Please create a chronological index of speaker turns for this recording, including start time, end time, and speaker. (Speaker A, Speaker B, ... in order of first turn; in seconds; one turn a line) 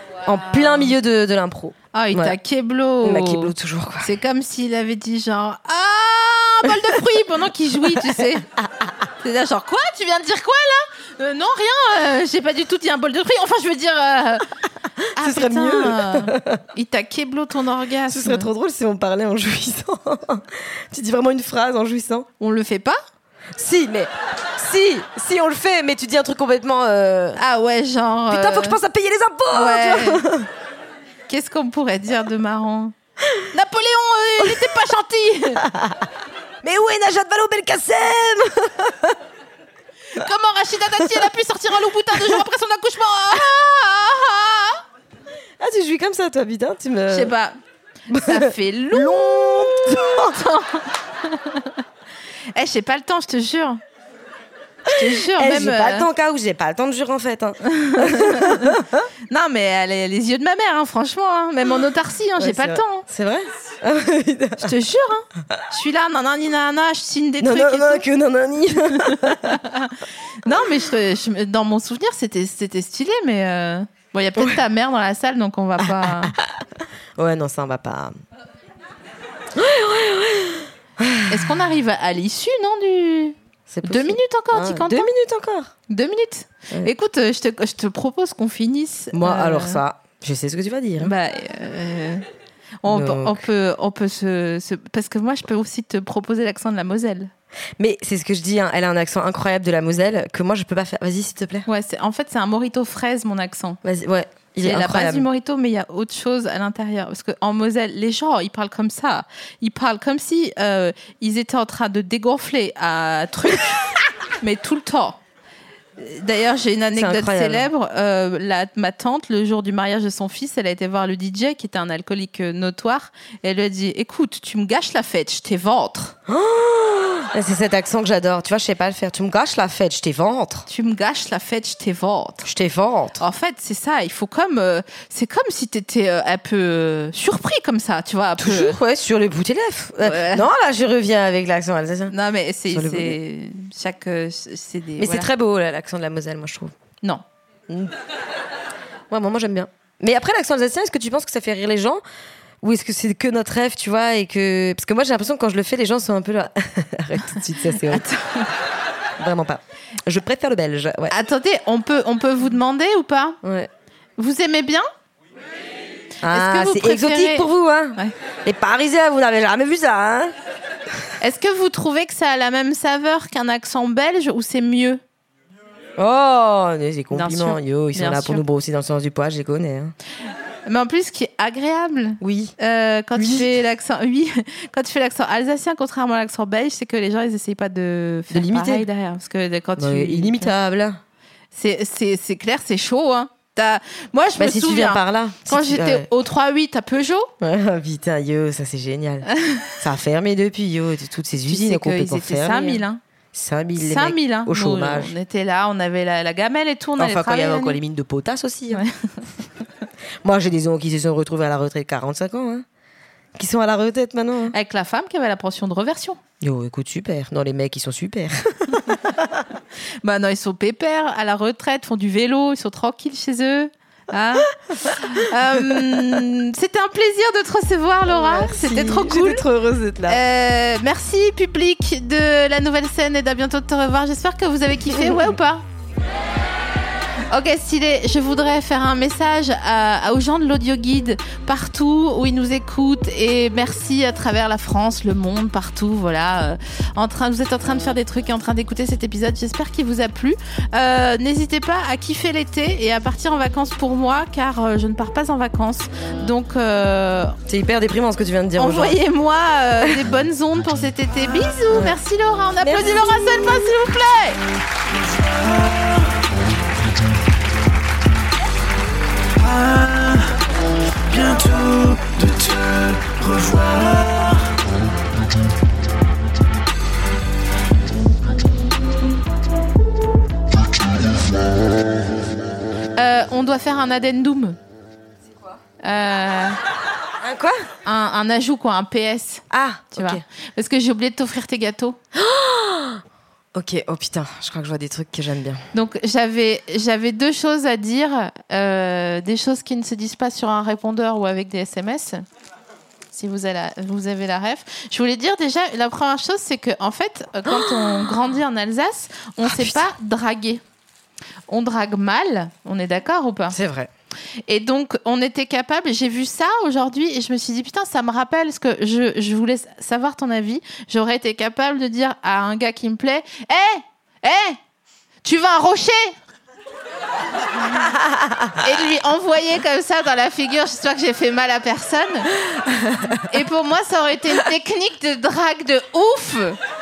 Speaker A: 0.2-2.4
Speaker B: 1.9-8.4
Speaker A: 3.0-4.1
Speaker A: 7.9-8.9
Speaker B: 9.2-14.4
Speaker B: 15.1-18.5
Speaker A: 15.2-16.6
Speaker A: 18.1-22.3
Speaker B: 22.4-23.0
Speaker A: 23.6-27.4
Speaker B: 27.4-28.8
Speaker A: 28.3-30.5
Speaker B: 29.5-30.2
Speaker B: 31.3-32.9
Speaker B: 33.5-35.6
Speaker A: 34.4-34.7
Speaker A: 35.6-36.1
Speaker A: 36.6-39.2
Speaker B: 40.1-44.8
Speaker A: 42.1-42.4
Speaker A: 45.6-47.3
Speaker B: 47.1-47.6
Speaker A: 48.1-50.4
Speaker B: 48.1-49.1
Speaker B: 50.1-51.8
Speaker B: 52.5-53.8
Speaker A: 54.9-59.1
Speaker B: 54.9-56.1
Speaker B: 57.6-63.0
Speaker A: 62.4-64.7
Speaker B: 64.6-68.1
Speaker A: 67.4-69.6
Speaker B: 68.9-76.3
Speaker A: 75.8-76.5
Speaker A: 77.2-78.1
Speaker A: 79.5-81.5
Speaker B: 81.3-85.1
Speaker A: 83.7-85.7
Speaker B: 85.9-89.8
Speaker A: 89.1-91.1
Speaker B: 91.0-92.2
Speaker B: 92.8-97.3
Speaker A: 92.9-93.5
Speaker A: 97.8-101.7
Speaker B: 101.7-103.8
Speaker A: 103.8-105.3
Speaker B: 104.6-115.2
Speaker B: 116.0-126.1
Speaker A: 116.9-117.7
Speaker A: 126.3-130.7
Speaker B: 130.7-132.5
Speaker A: 132.4-133.2
Speaker B: 133.2-138.8
Speaker A: 138.4-142.1
Speaker B: 140.0-140.4
Speaker B: 142.1-145.3
Speaker A: 142.7-143.2
Speaker A: 145.0-146.7
Speaker A: 147.7-147.9
Speaker A: 149.1-152.0
Speaker A: 152.6-158.1
Speaker B: 157.7-158.5
Speaker A: 159.2-161.1
Speaker B: 161.1-163.4
Speaker A: 163.4-163.7
Speaker B: 164.2-164.9
Speaker A: 166.2-170.3
Speaker B: 166.3-168.1
Speaker B: 171.2-175.0
Speaker A: 176.0-179.9
Speaker B: 177.1-178.4
Speaker B: 180.7-190.5
Speaker A: 182.2-182.5
Speaker A: 183.1-183.5
Speaker A: 188.3-188.9
Speaker A: 189.8-191.0
Speaker B: 191.5-197.3
Speaker A: 194.3-196.1
Speaker A: 197.4-205.1
Speaker B: 201.4-203.0
Speaker B: 203.8-207.8
Speaker A: 207.0-208.8
Speaker B: 208.7-209.0
Speaker A: 210.2-212.6
Speaker A: 213.3-214.6
Speaker B: 214.5-216.2
Speaker A: 216.4-219.4
Speaker B: 220.0-229.5
Speaker A: 228.1-230.2
Speaker B: 230.1-235.6
Speaker A: 234.8-235.3
Speaker B: 237.3-257.4
Speaker A: 257.5-259.0
Speaker B: 258.6-264.4
Speaker A: 259.8-260.1
Speaker A: 261.7-261.9
Speaker A: 262.6-263.1
Speaker C: 264.9-266.0
Speaker C: 269.4-270.3
Speaker C: 271.1-274.5
Speaker B: 282.9-284.6
Speaker B: 285.8-286.6
Speaker A: 287.2-287.7
Speaker B: 287.8-292.0
Speaker A: 289.5-290.2
Speaker A: 292.1-293.0
Speaker A: 293.5-295.6
Speaker B: 295.7-302.2
Speaker B: 303.1-310.6
Speaker A: 307.5-308.1
Speaker A: 309.4-309.9
Speaker B: 311.5-313.6
Speaker A: 313.5-313.9
Speaker B: 314.5-324.6
Speaker B: 325.2-326.1
Speaker B: 328.6-332.3
Speaker A: 332.6-333.2
Speaker B: 333.2-336.6